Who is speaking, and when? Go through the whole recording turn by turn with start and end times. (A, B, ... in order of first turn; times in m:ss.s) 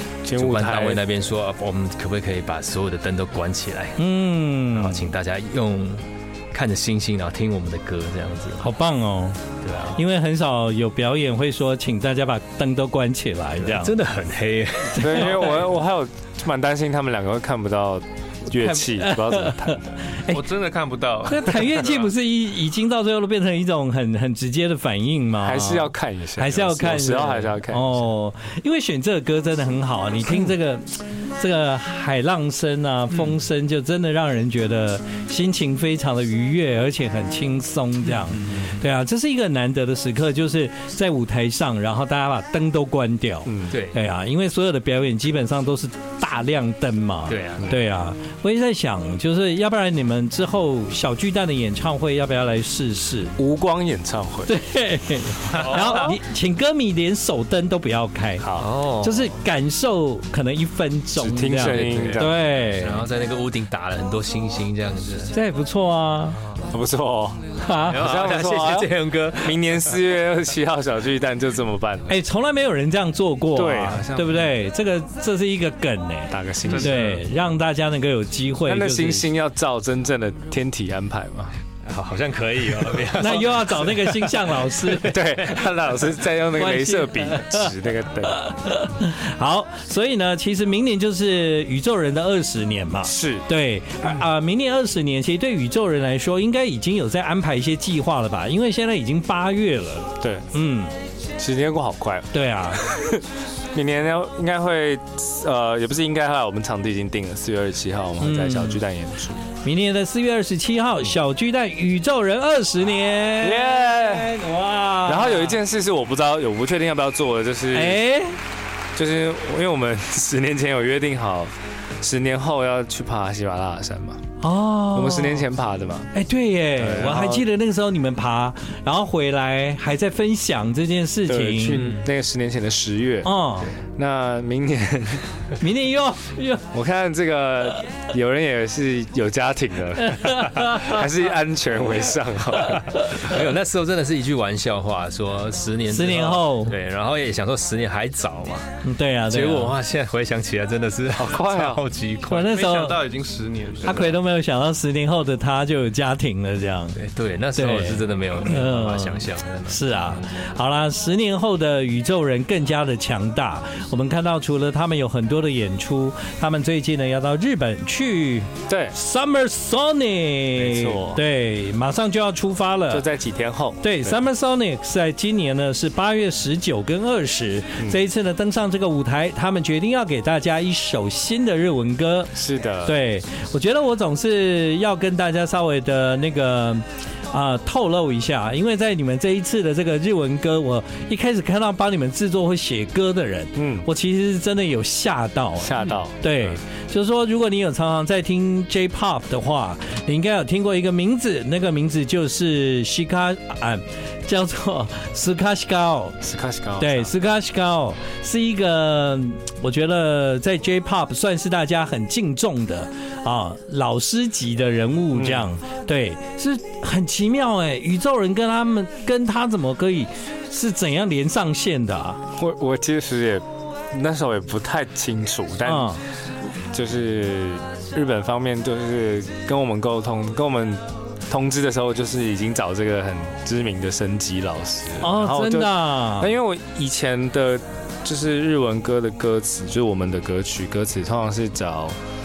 0:00.2-0:01.2 A
0:00.3-0:04.0 B
0:04.0-0:05.1 C
0:04.7-0:08.6 B
0:08.6-0:09.4 C
0:09.6-0:10.0 B
0:10.0-0:13.9 C
0:13.6-0:15.5 B
0:15.0-0:15.5 C
0:15.0-0:20.0 A
0:18.5-0:20.4 C
0:20.3-0:22.1 D
0:21.2-0:53.3 C
0:25.4-0:28.0 A
0:38.3-0:38.7 B
0:43.4-0:43.8 A
0:43.7-0:44.0 B
0:47.3-0:47.7 B
0:53.4-0:54.5 A
0:54.5-0:58.4 C
0:58.4-0:58.7 A
0:58.6-0:59.3 B
0:59.0-1:03.0 C
1:01.1-1:02.5 A
1:01.6-1:05.3 B
1:05.3-1:06.4 C
1:06.7-1:12.2 A
1:07.6-1:08.0 C
1:07.8-1:09.6 B
1:12.1-1:19.3 C
1:13.5-1:14.5 A
1:16.3-1:17.1 A
1:16.7-1:17.2 D
1:18.6-1:21.6 A
1:21.8-1:25.6 B
1:23.2-1:25.2 C
1:25.0-1:28.4 A
1:26.5-1:27.7 C
1:28.2-1:40.9 C
1:33.0-1:33.4 A
1:40.2-1:40.5 A
1:41.4-1:49.4 A
1:42.3-1:42.8 C
1:48.2-1:48.8 C
1:49.6-1:55.6 C
1:53.4-1:54.3 A
1:55.0-1:58.0 A
1:57.7-1:58.4 C
1:58.9-2:04.2 A
2:04.4-2:05.4 C
2:04.9-2:06.1 A
2:06.1-2:11.8 C
2:06.8-2:07.5 A
2:11.3-2:15.2 A
2:11.7-2:12.0 B
2:13.2-2:13.7 C
2:15.6-2:16.7 C
2:16.7-2:23.4 A
2:20.0-2:21.0 C
2:23.0-2:23.3 C
2:23.2-2:28.7 B
2:25.9-2:26.7 C
2:28.8-2:29.7 C
2:29.3-2:32.5 B
2:31.1-2:31.8 A
2:32.3-2:33.0 C
2:32.3-2:34.0 D
2:33.8-2:34.1 B
2:33.8-2:37.0 C
2:37.0-2:40.3 B
2:37.6-2:53.0 C
2:48.7-2:48.9 A
2:50.6-2:51.2 A
2:52.9-2:54.2 A
2:53.8-3:26.2 C
3:02.3-3:03.0 A
3:13.6-3:13.9 A
3:15.6-3:16.5 A
3:26.2-3:27.1 A
3:26.8-3:42.2 C
3:35.1-3:35.6 A
3:42.4-3:46.0 A
3:45.6-3:46.0 C
3:46.7-4:02.0 A
3:55.0-3:56.3 C